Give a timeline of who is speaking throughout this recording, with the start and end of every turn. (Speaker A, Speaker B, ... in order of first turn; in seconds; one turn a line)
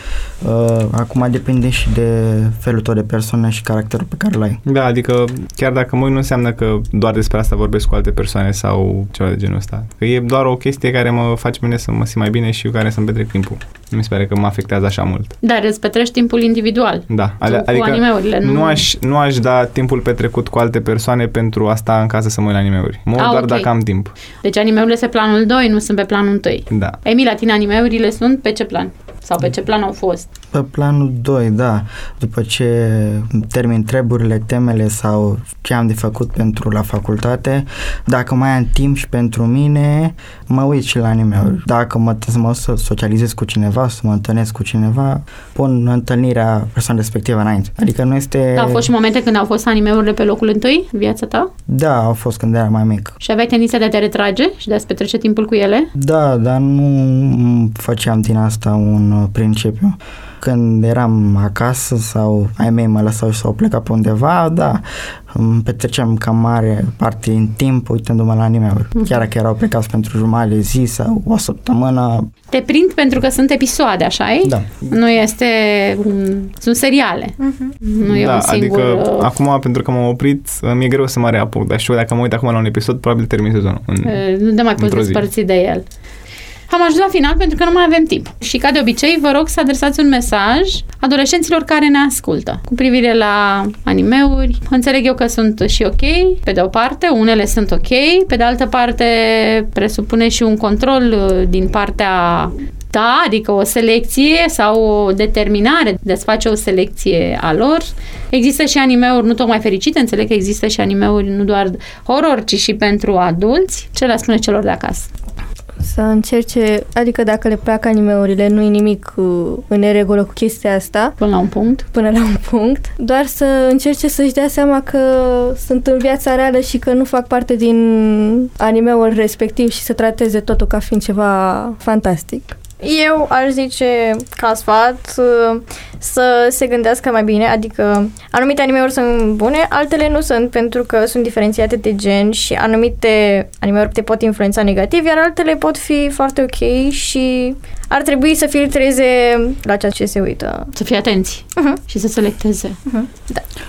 Speaker A: 0.4-4.6
Speaker B: 4.7-15.3
Speaker C: 15.4-18.9
Speaker B: 17.1-24.1
Speaker C: 23.2-23.7
Speaker C: 24.4-30.3
Speaker B: 26.7-27.0
Speaker A: 30.5-48.9
Speaker C: 48.6-51.5
Speaker A: 51.7-53.1
Speaker C: 53.2-55.9
Speaker A: 56.0-72.3
Speaker C: 72.5-79.3
Speaker D: 77.4-77.7
Speaker B: 78.0-84.2
Speaker C: 84.0-85.8
Speaker B: 84.8-85.2
Speaker C: 86.7-115.1
Speaker E: 115.8-121.1
Speaker C: 121.2-121.9
Speaker E: 121.9-132.6
Speaker D: 132.8-150.7
Speaker C: 150.8-152.8
Speaker D: 152.9-153.4